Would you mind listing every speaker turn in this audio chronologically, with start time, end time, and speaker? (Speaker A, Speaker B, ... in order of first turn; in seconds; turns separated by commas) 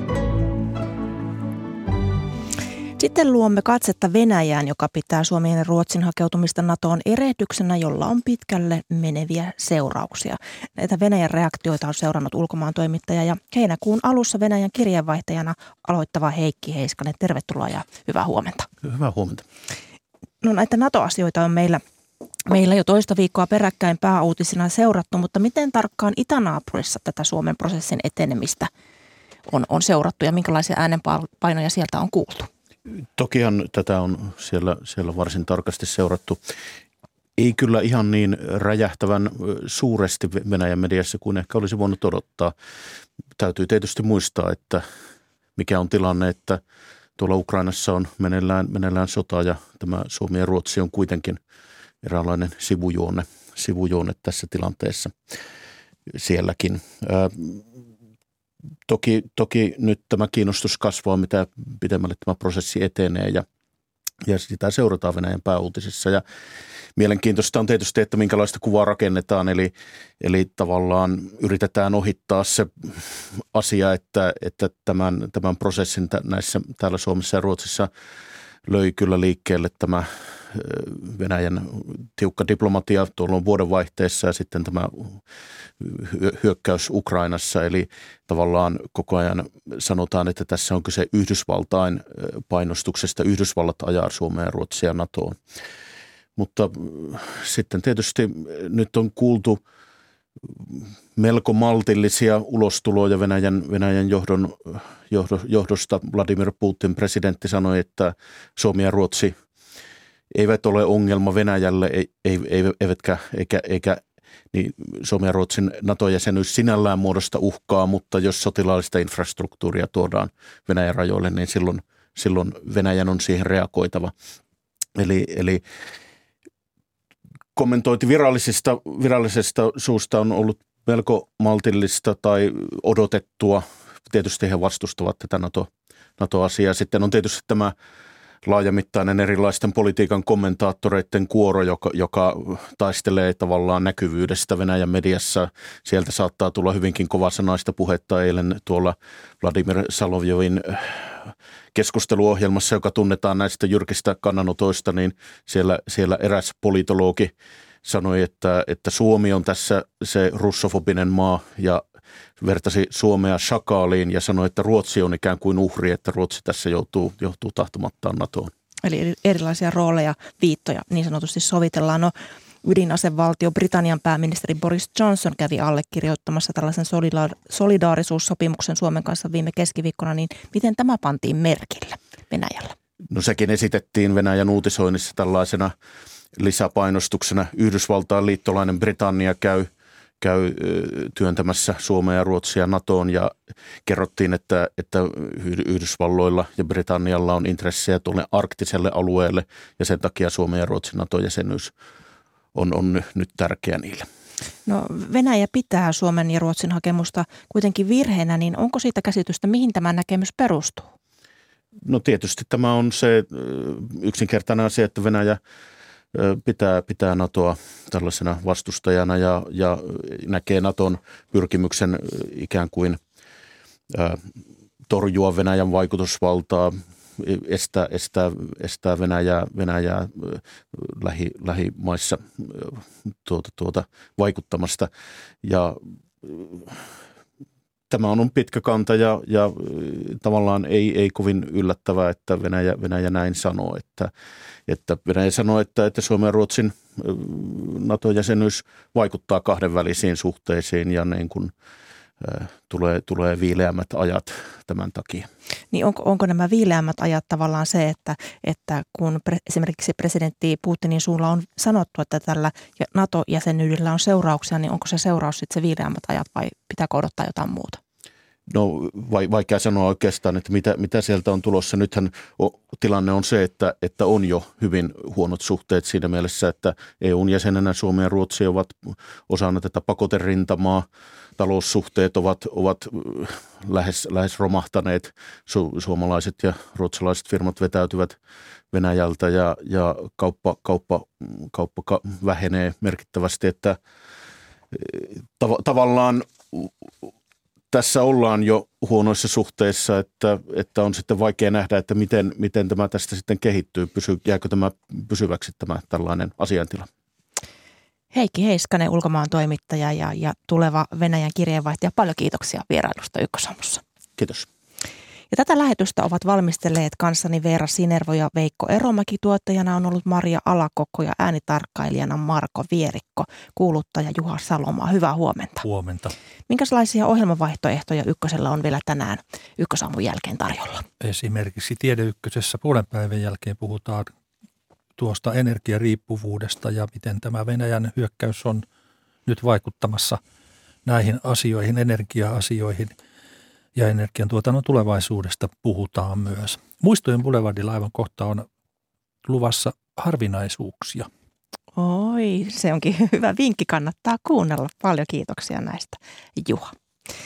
Speaker A: 3.0-18.7, Speaker B: 18.8-19.4, Speaker A: 20.4-21.8, Speaker A: 22.5-28.7, Speaker A: 29.5-32.5, Speaker B: 33.1-36.4, Speaker B: 37.4-42.5, Speaker B: 43.4-44.9, Speaker B: 45.6-46.6, Speaker B: 47.2-51.4, Speaker B: 52.0-55.1, Speaker B: 56.1-57.6, Speaker B: 58.9-63.5, Speaker B: 64.3-66.2, Speaker B: 67.0-77.9, Speaker B: 78.7-85.2, Speaker B: 85.8-95.4, Speaker B: 96.4-99.6, Speaker B: 100.7-109.3, Speaker B: 110.3-114.0, Speaker B: 114.5-124.1, Speaker B: 125.0-125.7, Speaker B: 127.5-137.8, Speaker B: 138.4-157.3, Speaker B: 157.8-161.8, Speaker B: 162.4-168.5, Speaker A: 168.8-172.1, Speaker A: 172.6-182.7, Speaker B: 183.1-185.7, Speaker B: 186.4-193.3, Speaker B: 193.9-201.7, Speaker B: 202.6-204.1, Speaker A: 204.7-210.9, Speaker B: 211.9-215.4, Speaker B: 216.1-223.0, Speaker B: 223.9-224.2, Speaker B: 224.9-234.9, Speaker B: 235.4-236.8, Speaker B: 237.9-244.1, Speaker B: 244.7-251.5, Speaker B: 252.2-255.3, Speaker A: 255.7-267.8, Speaker B: 268.5-280.9, Speaker B: 281.4-288.2, Speaker B: 288.7-293.8, Speaker B: 294.7-296.7, Speaker B: 297.7-306.9, Speaker A: 308.1-313.8, Speaker B: 314.2-314.5, Speaker A: 315.3-325.6, Speaker C: 325.6-326.1, Speaker A: 326.5-330.9, Speaker C: 331.0-334.1, Speaker C: 335.0-338.6, Speaker C: 339.3-340.2, Speaker C: 340.9-342.9, Speaker C: 343.8-348.5, Speaker C: 349.2-351.1, Speaker A: 351.8-356.7